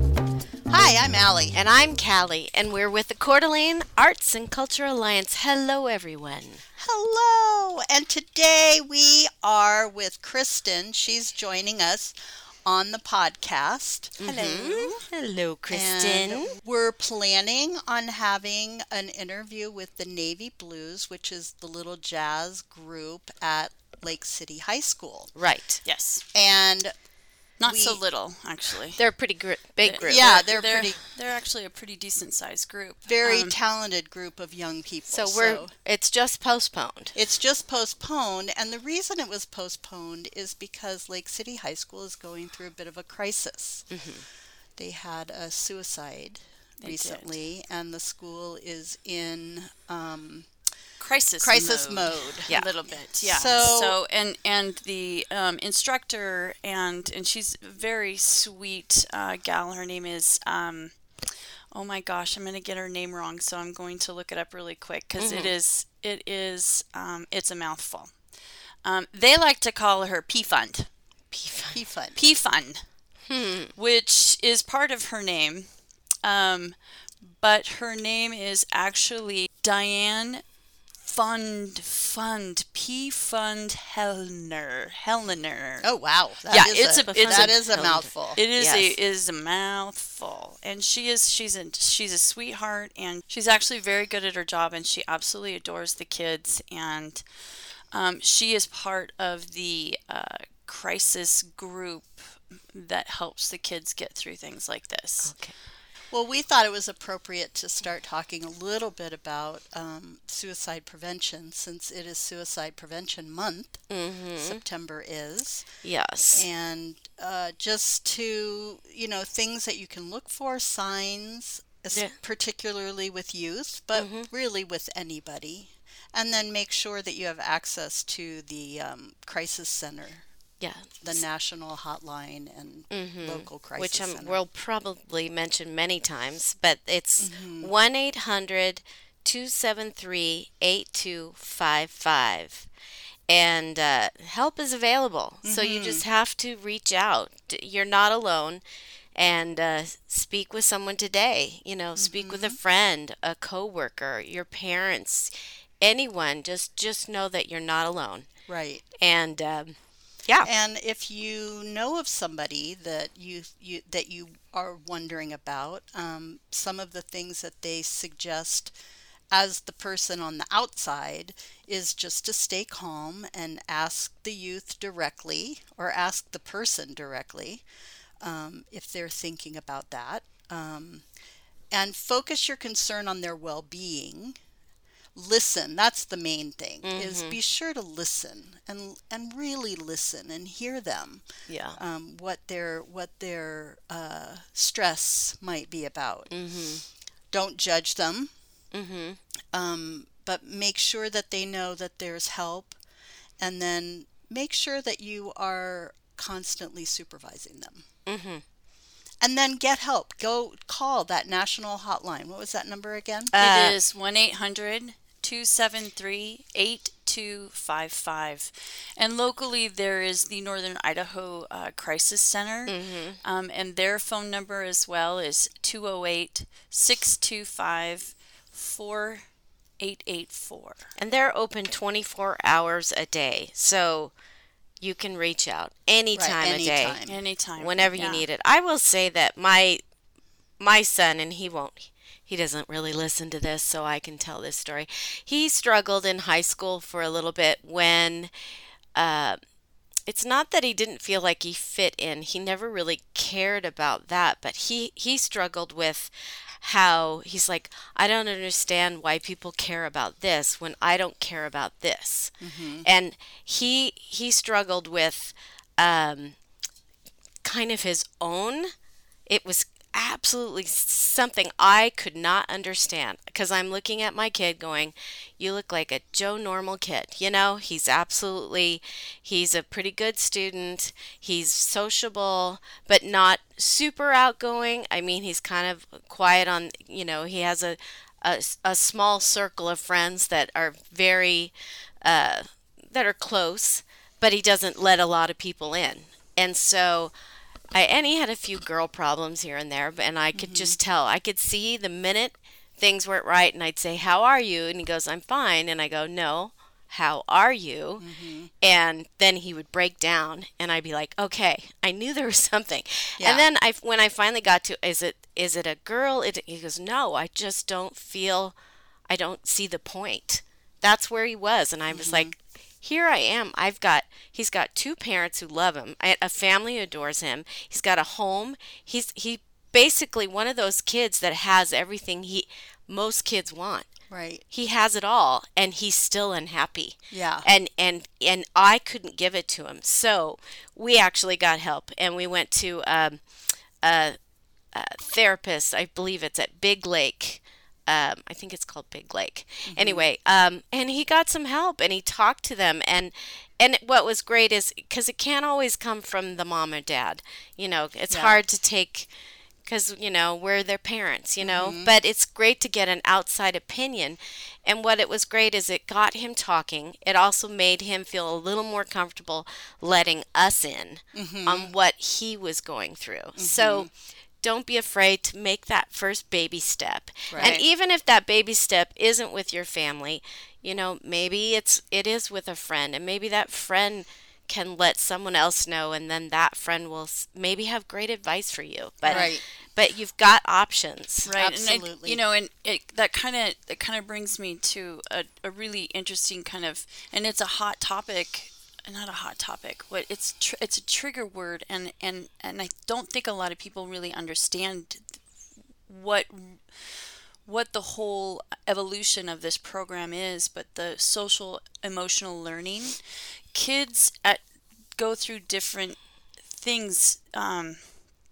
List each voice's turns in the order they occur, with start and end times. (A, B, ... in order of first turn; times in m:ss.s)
0:00.7-0:01.6 A
0:01.5-0:06.6 B
0:06.8-0:12.1 A
0:12.6-0:15.0 A
0:14.2-0:16.5 B
0:15.7-0:25.3 A
0:25.3-0:25.8 B
0:25.8-0:26.2 C
0:26.3-0:26.9 A
0:27.6-0:29.0 C
0:27.6-0:28.0 A
0:29.0-0:30.3 B
0:29.8-0:33.6 C
0:30.0-0:31.0 A
0:33.1-0:35.7 A
0:35.1-0:37.2 B
0:37.2-0:43.9 A
0:43.9-0:44.2 B
0:44.8-0:50.5 A
0:46.8-0:47.2 C
0:51.0-1:00.9 C
0:51.4-0:52.5 A
0:52.5-0:52.7 B
0:53.1-0:54.0 A
1:01.7-1:08.1 C
1:05.2-1:05.5 B
1:08.8-1:10.9 C
1:11.3-1:11.8 B
1:11.7-1:12.2 A
1:12.1-1:12.8 C
1:13.3-1:13.7 B
1:13.8-1:15.7 C
1:16.2-1:20.4 C
1:21.0-1:25.9 C
1:25.8-1:28.4 A
1:26.5-1:27.6 C
1:27.1-1:29.0 B
1:28.4-1:37.2 C
1:37.9-1:45.3 C
1:45.2-1:45.5 B
1:46.1-1:53.8 A
1:53.9-1:54.6 B
1:54.4-1:55.7 A
1:55.8-1:56.5 B
1:56.3-2:10.2 A
2:03.9-2:04.3 B
2:10.6-2:11.2 B
2:11.0-2:14.4 A
2:12.9-2:22.7 B
2:17.2-2:17.7 A
2:23.3-2:28.6 B
2:25.4-2:26.0 A
2:29.2-2:38.3 B
2:32.0-2:32.6 A
2:38.5-2:38.8 A
2:39.0-2:39.8 B
2:40.4-2:48.7 A
2:49.3-2:57.6 A
2:58.2-3:01.0 A
3:01.7-3:04.4 A
3:05.2-3:11.2 A
3:06.8-3:07.4 B
3:11.5-3:11.8 B
3:11.8-3:16.3 A
3:16.3-3:16.8 B
3:17.3-3:18.3 A
3:18.7-3:19.2 B
3:19.5-3:22.8 A
3:23.4-3:27.8 A
3:28.1-3:28.4 B
3:29.2-3:33.3 A
3:33.3-3:33.8 B
3:33.3-3:49.2 C
3:42.7-3:43.2 B
3:49.8-3:50.9 C
3:51.0-3:54.1 B
3:54.8-3:57.0 B
3:56.2-3:57.2 A
3:57.1-3:58.2 C
3:57.6-3:59.8 B
4:00.6-4:08.3 B
4:09.0-4:09.4 B
4:10.1-4:22.3 B
4:22.4-4:22.8 A
4:22.8-4:26.4 B
4:27.4-4:28.7 B
4:29.3-4:57.1 B
4:57.7-5:08.0 B
5:00.3-5:00.8 A
5:08.0-5:08.5 A
5:08.6-5:18.5 B
5:13.2-5:13.4 A
5:19.1-5:33.9 B
5:21.9-5:22.3 A
5:34.1-5:34.4 A
5:34.5-5:43.2 B
5:37.1-5:37.4 A
5:43.8-5:44.2 B
5:44.7-5:59.1 B
5:49.6-5:50.0 A
5:58.1-5:58.4 A
5:59.6-6:13.9 B
6:01.4-6:01.9 A
6:11.1-6:11.7 A
6:13.4-6:13.9 A
6:14.4-6:31.3 B
6:17.3-6:17.6 A
6:17.4-6:17.6 C
6:29.0-6:29.3 C
6:29.0-6:29.4 A
6:31.2-6:45.2 C
6:31.3-6:32.2 A
6:45.9-6:46.6 C
6:47.4-6:53.0 C
6:53.5-6:54.4 C
6:55.0-6:56.0 C
6:56.5-6:57.9 C